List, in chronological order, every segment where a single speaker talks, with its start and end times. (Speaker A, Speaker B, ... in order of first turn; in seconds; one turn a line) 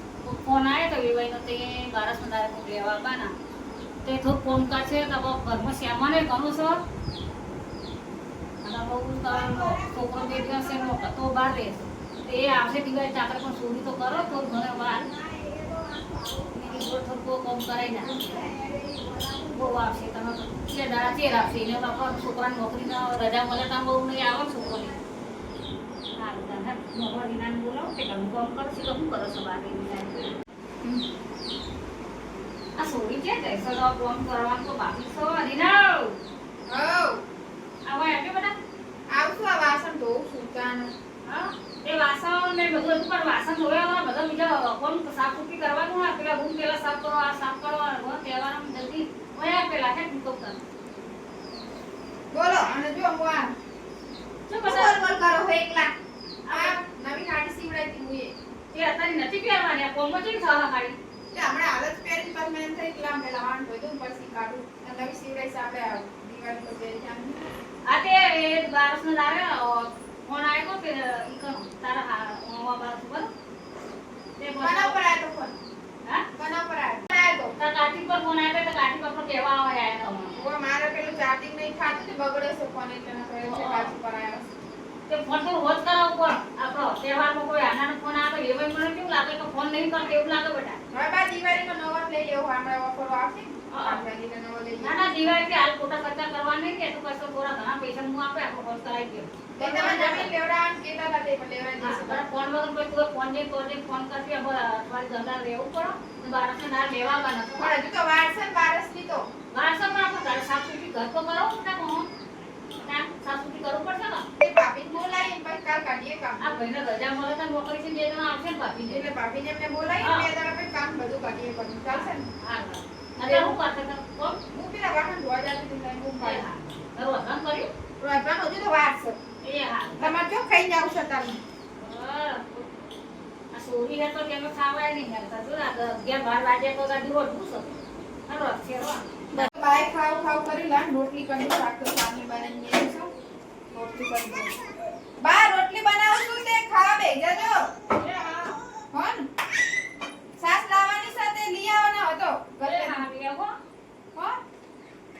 Speaker A: 0.2-3.3
Speaker A: 4.0-6.8
Speaker A: 8.6-15.1
Speaker B: 9.5-10.5
Speaker B: 15.3-16.6
Speaker A: 16.5-18.2
Speaker B: 17.9-19.6
Speaker A: 19.5-24.9
Speaker A: 26.2-30.3
Speaker A: 32.8-36.2
Speaker B: 36.7-37.2
Speaker A: 37.9-38.6
Speaker B: 39.1-40.9
Speaker A: 41.2-50.6
Speaker B: 52.3-53.5
Speaker A: 54.5-55.0
Speaker B: 54.6-55.9
Speaker A: 56.5-56.8
Speaker B: 56.5-58.3
Speaker A: 58.7-61.0
Speaker B: 61.3-67.4
Speaker A: 67.9-73.3
Speaker A: 74.4-75.0
Speaker B: 74.6-75.5
Speaker B: 76.4-77.5
Speaker A: 77.6-80.4
Speaker B: 80.4-84.5
Speaker A: 83.4-83.9
Speaker A: 85.1-90.8
Speaker B: 90.9-94.9
Speaker A: 93.7-94.0
Speaker A: 94.8-100.3
Speaker B: 99.6-102.3
Speaker A: 101.8-107.7
Speaker B: 107.6-109.3
Speaker A: 109.5-112.1
Speaker A: 112.8-114.2
Speaker B: 114.4-116.7
Speaker A: 116.4-119.1
Speaker B: 118.8-122.3
Speaker A: 120.0-120.3
Speaker A: 121.9-124.4
Speaker B: 123.2-123.6
Speaker B: 124.5-126.5
Speaker A: 126.2-127.7
Speaker B: 128.0-129.2
Speaker A: 129.4-130.2
Speaker B: 130.0-131.4
Speaker A: 131.8-132.7
Speaker A: 133.5-137.8
Speaker A: 138.3-139.5
Speaker B: 139.3-143.1
Speaker B: 143.7-144.6
Speaker B: 145.2-147.6
Speaker A: 147.9-148.6
Speaker B: 148.9-149.3
Speaker B: 150.4-153.1
Speaker A: 152.6-153.5